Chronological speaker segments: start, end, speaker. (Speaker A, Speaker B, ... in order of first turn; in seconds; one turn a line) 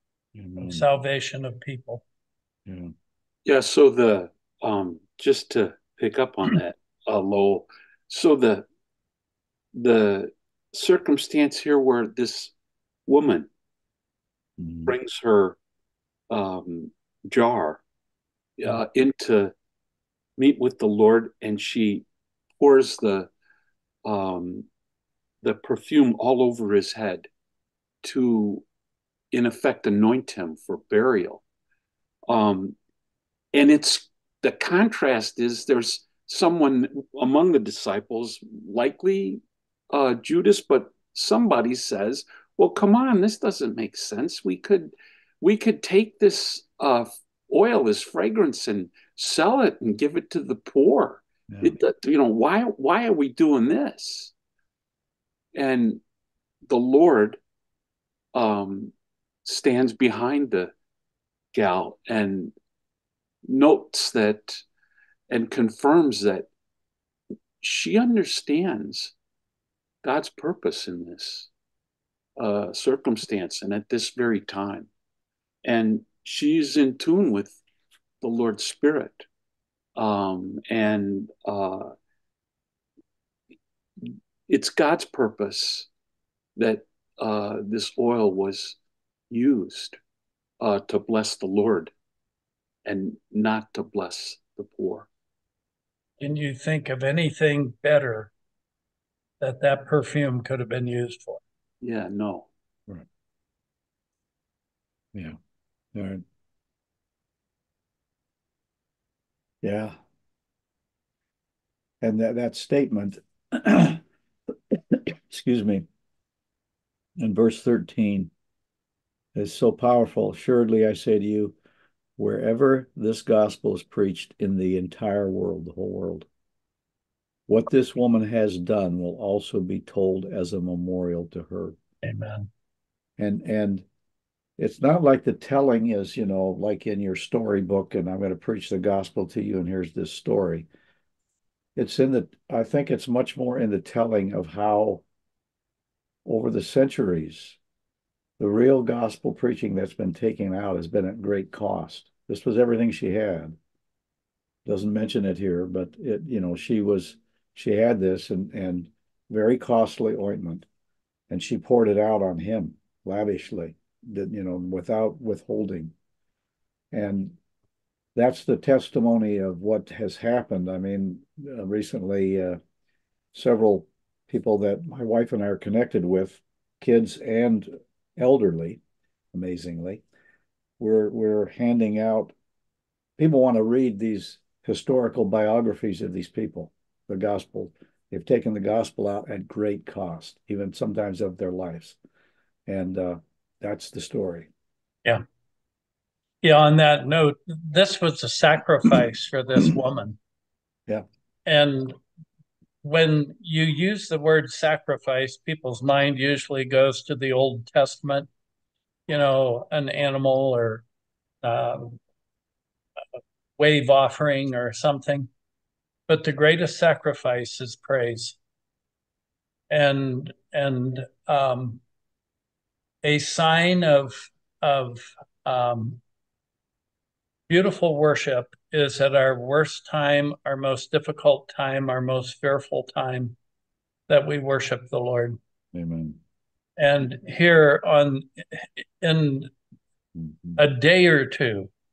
Speaker A: 0.3-0.9
Speaker B: 0.6-2.0
Speaker A: 2.6-2.9
Speaker C: 3.4-8.7
Speaker C: 9.7-12.5
Speaker C: 13.1-13.5
Speaker A: 14.6-14.9
Speaker C: 14.8-15.6
Speaker C: 16.3-17.8
Speaker C: 18.6-19.5
Speaker C: 20.4-22.0
Speaker C: 22.6-23.3
Speaker C: 24.0-24.6
Speaker C: 25.4-27.3
Speaker C: 28.0-28.6
Speaker C: 29.3-31.4
Speaker C: 32.3-32.7
Speaker C: 33.5-54.3
Speaker A: 51.5-51.8
Speaker C: 55.5-56.0
Speaker C: 56.6-57.4
Speaker C: 58.3-58.9
Speaker C: 59.4-60.7
Speaker C: 61.5-62.5
Speaker C: 63.4-64.6
Speaker C: 65.3-66.5
Speaker C: 67.6-69.1
Speaker C: 70.0-71.5
Speaker C: 72.4-74.9
Speaker C: 75.6-77.6
Speaker C: 78.2-79.3
Speaker C: 80.0-81.9
Speaker C: 84.0-85.9
Speaker C: 86.5-88.8
Speaker C: 89.3-90.0
Speaker C: 90.6-91.9
Speaker C: 92.8-95.1
Speaker B: 96.2-98.3
Speaker B: 99.4-101.4
Speaker C: 101.8-102.5
Speaker A: 105.9-106.2
Speaker A: 109.6-110.0
Speaker A: 112.0-114.0
Speaker A: 114.7-115.8
Speaker A: 117.2-118.3
Speaker A: 119.3-121.5
Speaker A: 122.2-126.3
Speaker A: 127.5-131.8
Speaker B: 132.0-132.5
Speaker A: 133.2-133.8
Speaker A: 134.6-140.7
Speaker A: 141.8-145.0
Speaker A: 146.2-147.6
Speaker A: 148.4-153.6
Speaker A: 154.7-160.7
Speaker A: 161.3-165.9
Speaker A: 166.9-167.3
Speaker A: 168.1-172.6
Speaker A: 173.3-178.8
Speaker A: 179.3-180.0
Speaker A: 180.8-182.3
Speaker A: 183.2-192.0
Speaker A: 192.7-194.5
Speaker B: 196.4-200.2
Speaker B: 201.4-201.9
Speaker B: 202.8-208.3
Speaker B: 209.1-210.8
Speaker B: 211.4-212.0
Speaker B: 213.6-215.3
Speaker B: 216.1-218.4
Speaker B: 219.7-221.8
Speaker B: 223.0-226.0
Speaker B: 227.5-233.4
Speaker B: 234.1-235.4
Speaker A: 235.7-236.2
Speaker B: 236.8-239.5
Speaker A: 240.2-240.6
Speaker B: 240.6-241.7